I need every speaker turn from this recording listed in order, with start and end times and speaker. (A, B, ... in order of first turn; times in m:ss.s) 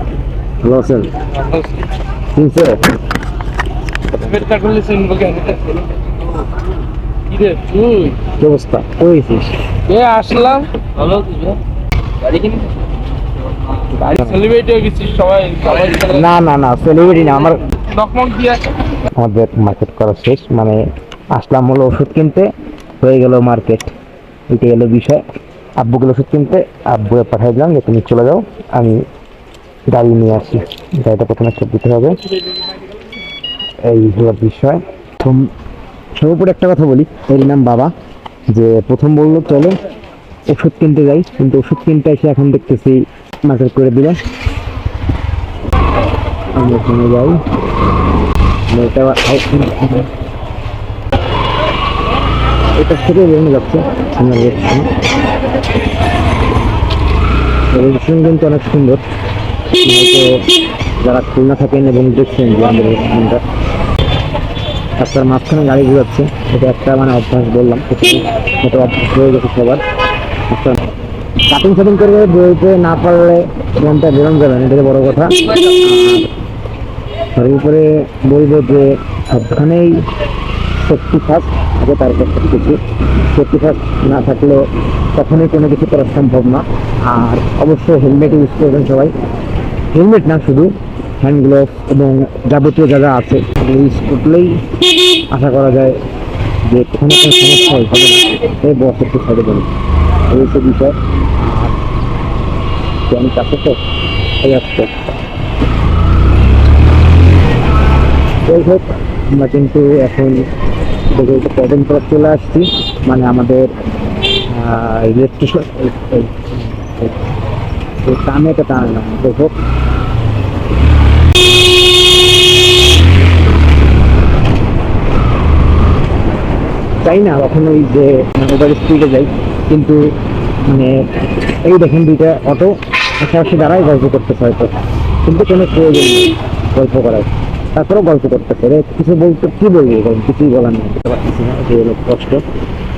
0:00.6-0:01.2 A
0:01.4-0:01.8 B
0:02.3-0:02.9 A
0:04.2-0:06.0 B
0:07.3-0:08.2 B
0:08.3-0:09.6 A
0:09.9-0:11.6 B
0:12.2-0:12.8 B
0:13.7-0:16.2 B
0:13.9-0:14.5 A
0:16.0-0:17.6 A
0:17.9-0:18.7 B
0:19.1-0:23.9 A
0:24.5-0:25.2 A
0:25.8-0:29.1 A
0:29.9-0:32.2 A
0:33.8-0:35.5 A
0:36.2-0:37.9 A
0:38.5-0:39.8 A
0:40.5-0:44.2 A
0:46.6-0:47.4 A
0:48.7-0:50.1 A
0:52.8-0:54.9 A
0:57.7-0:59.0 A
0:59.8-1:00.4 A
1:01.0-1:03.4 A
1:05.0-1:09.8 A
1:10.5-1:10.8 A
1:11.5-1:16.3 A
1:17.4-1:20.1 A
1:20.8-1:29.1 A
1:29.9-1:34.6 A
1:35.3-1:36.0 A
1:36.7-1:39.7 A
1:40.3-1:41.8 A
1:43.1-1:43.8 A
1:44.4-1:44.9 A
1:48.4-1:50.4 A
1:51.1-1:53.7 A
1:54.5-1:57.1 A
1:58.0-1:59.5 A
2:07.0-2:10.0 A
2:10.7-2:11.0 A
2:11.6-2:22.4 A